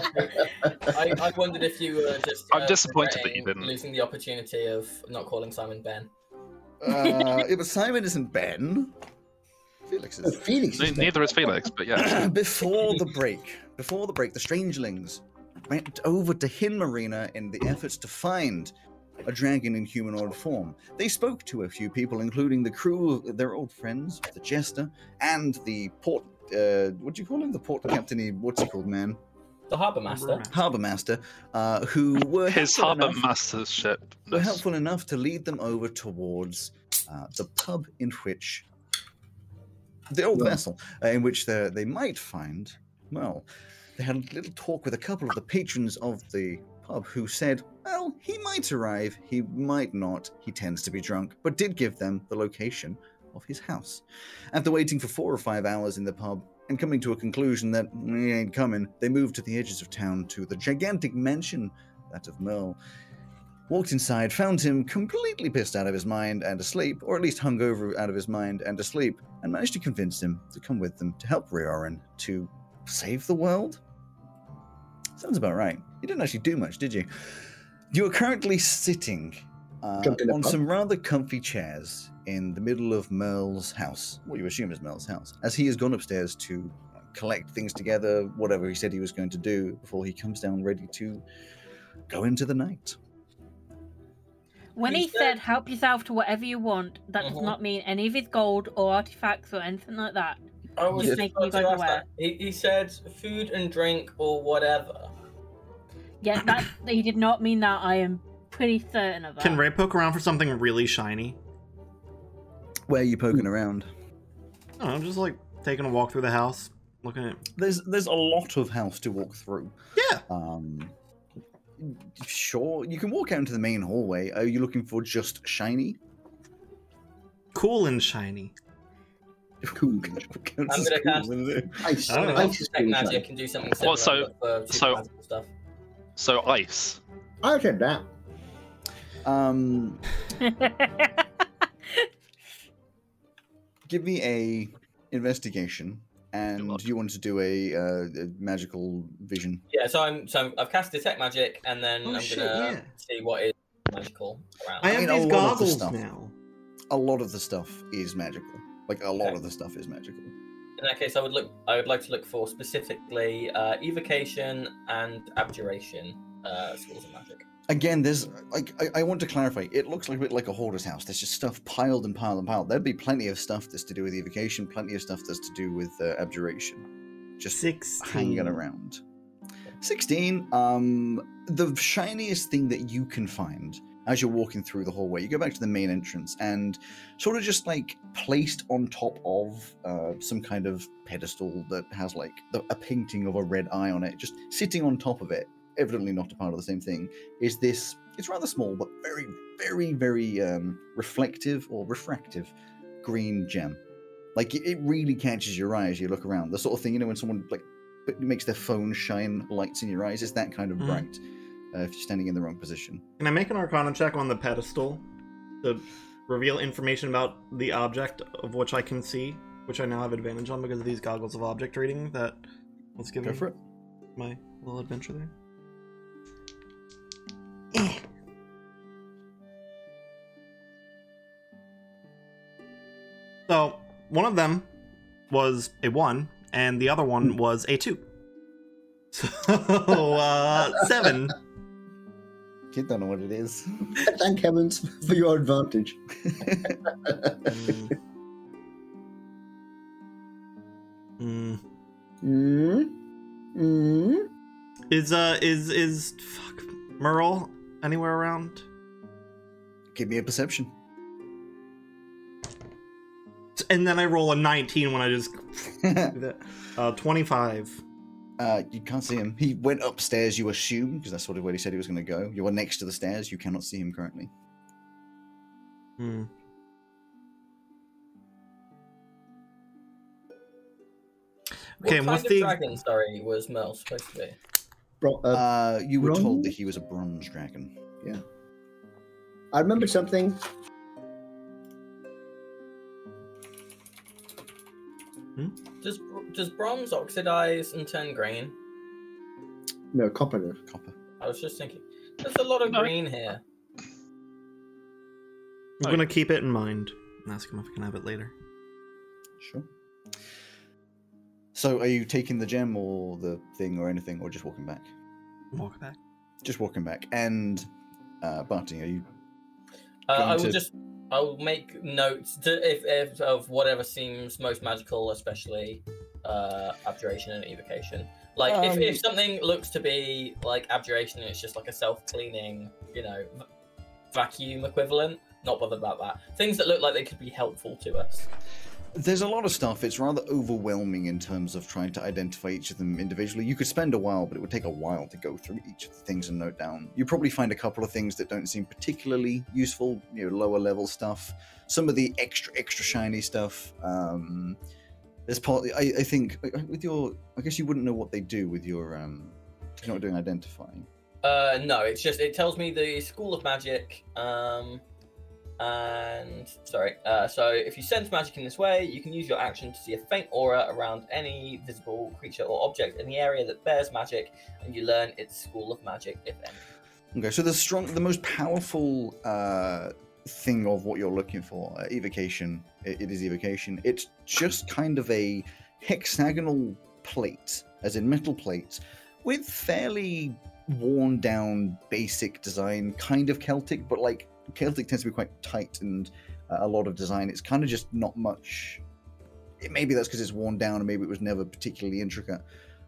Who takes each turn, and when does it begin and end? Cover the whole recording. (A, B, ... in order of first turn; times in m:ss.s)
0:00.2-0:06.1 A
0:02.5-0:03.7 B
0:06.8-0:08.9 C
0:06.9-0:07.4 D
0:09.9-0:10.4 C
0:10.2-0:11.1 E
0:10.7-0:12.3 B
0:11.9-0:18.7 C
0:19.2-0:29.2 C
0:29.7-0:30.5 A
0:30.1-0:30.6 F
0:30.5-0:33.2 C
0:32.4-0:34.6 B
0:34.3-0:38.7 C
0:40.1-0:43.4 C
0:44.0-1:02.8 C
1:03.7-1:13.8 C
1:15.2-1:31.2 C
1:20.0-1:20.6 E
1:32.1-1:33.0 C
1:34.8-1:40.4 D
1:34.9-1:35.4 A
1:37.2-1:37.6 A
1:40.8-1:45.1 A
1:40.9-1:42.0 D
1:46.2-1:49.6 D
1:49.4-1:51.4 F
1:52.9-1:53.9 C
1:54.8-1:57.4 F
1:57.6-1:59.7 C
2:00.0-2:00.2 F
2:00.3-2:00.9 C
2:01.8-2:06.0 C
2:07.5-2:08.5 F
2:09.6-2:12.0 C
2:09.7-2:10.3 E
2:10.7-2:11.3 A
2:11.8-2:13.2 E
2:12.1-2:12.6 F
2:12.1-2:15.5 A
2:13.8-2:15.0 B
2:16.2-2:17.0 B
2:17.4-2:18.1 E
2:19.2-2:20.0 C
2:20.4-2:21.1 D
2:23.9-2:29.6 C
2:26.6-2:26.8 B
2:29.7-2:35.0 A
2:32.0-2:32.9 F
2:34.8-2:36.3 F
2:34.9-2:36.0 C
2:36.9-2:40.3 C
2:40.8-2:47.4 A
2:47.7-2:56.8 C
2:57.4-2:59.0 C
2:57.5-2:58.6 F
2:59.8-3:23.8 C
3:24.3-3:33.0 C
3:30.8-3:31.1 F
3:33.2-3:35.0 F
3:35.6-3:42.4 F
3:43.0-3:43.5 F
3:43.2-3:43.6 C
3:44.2-3:45.3 F
3:47.7-3:48.0 F
3:53.5-3:54.7 F
3:55.3-3:58.0 F
3:59.1-4:01.4 F
4:02.7-4:04.0 C
4:04.0-4:06.0 E
4:06.6-4:07.8 E
4:07.5-4:08.0 F
4:11.2-4:11.6 F
4:12.2-4:12.9 E
4:13.5-4:14.3 E
4:14.9-4:18.6 F
4:19.9-4:20.7 C
4:23.6-4:27.8 F
4:25.8-4:26.1 C
4:28.4-4:34.3 C
4:36.0-4:36.3 F
4:41.8-4:42.6 F
4:41.8-4:44.4 A
4:45.0-4:45.4 E
4:45.3-4:47.7 C
4:46.0-4:46.5 E
4:49.5-4:50.4 E
4:55.8-4:58.5 A
4:59.9-5:00.6 E
5:00.7-5:00.9 C
5:01.2-5:03.4 A
5:05.8-5:08.3 F
5:09.4-5:09.7 C
5:11.5-5:14.9 C
5:15.5-5:16.0 F
5:16.4-5:17.7 C
5:18.2-5:19.0 C
5:20.1-5:33.4 A
5:20.1-5:20.6 C
5:28.4-5:29.0 C
5:34.1-5:38.3 A
5:38.9-5:54.6 C
5:55.3-6:00.9 C
6:01.2-6:04.8 A
6:05.6-6:16.6 A
6:17.1-6:38.8 C
6:39.6-6:42.4 C